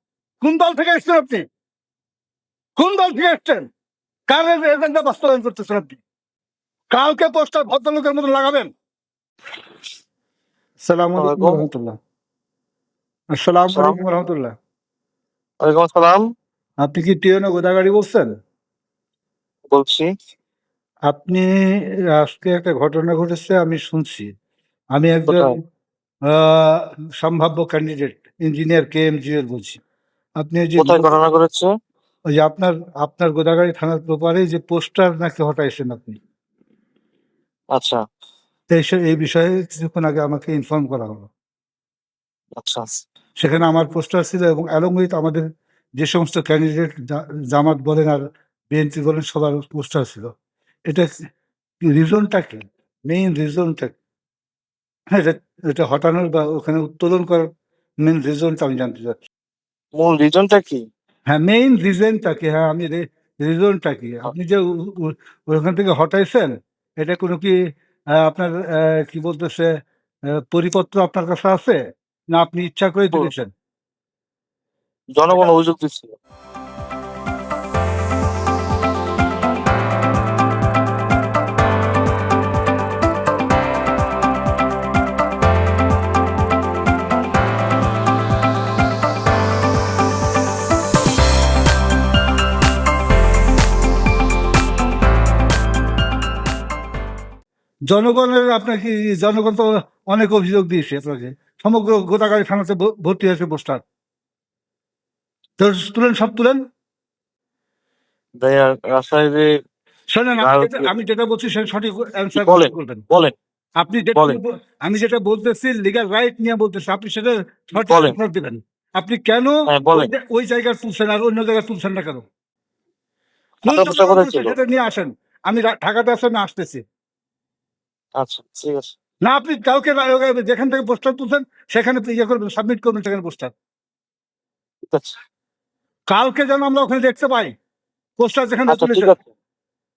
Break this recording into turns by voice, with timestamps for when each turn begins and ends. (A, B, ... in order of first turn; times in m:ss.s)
0:00.4-0:01.4 A
0:02.8-0:03.7 A
0:04.3-0:06.0 A
0:06.9-0:08.7 A
0:10.8-0:12.0 A
0:11.2-0:11.6 B
0:13.3-0:14.5 A
0:13.7-0:14.0 B
0:15.6-0:16.3 B
0:16.8-0:18.3 A
0:19.7-0:20.1 B
0:21.1-0:24.3 A
0:24.9-0:25.5 A
0:25.3-0:25.5 B
0:26.3-0:29.8 A
0:30.4-0:31.1 A
0:30.8-0:31.7 B
0:32.4-0:36.2 A
0:37.7-0:38.0 B
0:38.7-0:41.3 A
0:42.6-0:42.9 B
0:43.4-0:45.4 A
0:46.0-0:50.3 A
0:51.8-0:54.0 A
0:55.1-0:57.5 A
0:58.0-0:59.2 A
1:00.0-1:00.8 B
1:01.3-1:07.6 A
1:08.2-1:09.7 A
1:10.4-1:11.8 A
1:12.3-1:13.5 A
1:15.2-1:16.1 B
1:37.9-1:43.8 A
1:45.6-1:46.6 A
1:48.4-1:49.5 B
1:50.1-1:53.0 A
1:50.4-1:50.9 B
1:52.4-1:53.4 B
1:53.8-2:02.3 A
1:57.8-1:58.2 B
1:59.7-2:00.1 B
2:03.6-2:06.8 A
2:03.7-2:04.6 B
2:08.2-2:09.0 B
2:09.2-2:13.5 A
2:14.9-2:15.2 B
2:16.1-2:17.5 A
2:18.2-2:19.2 A
2:18.7-2:19.2 B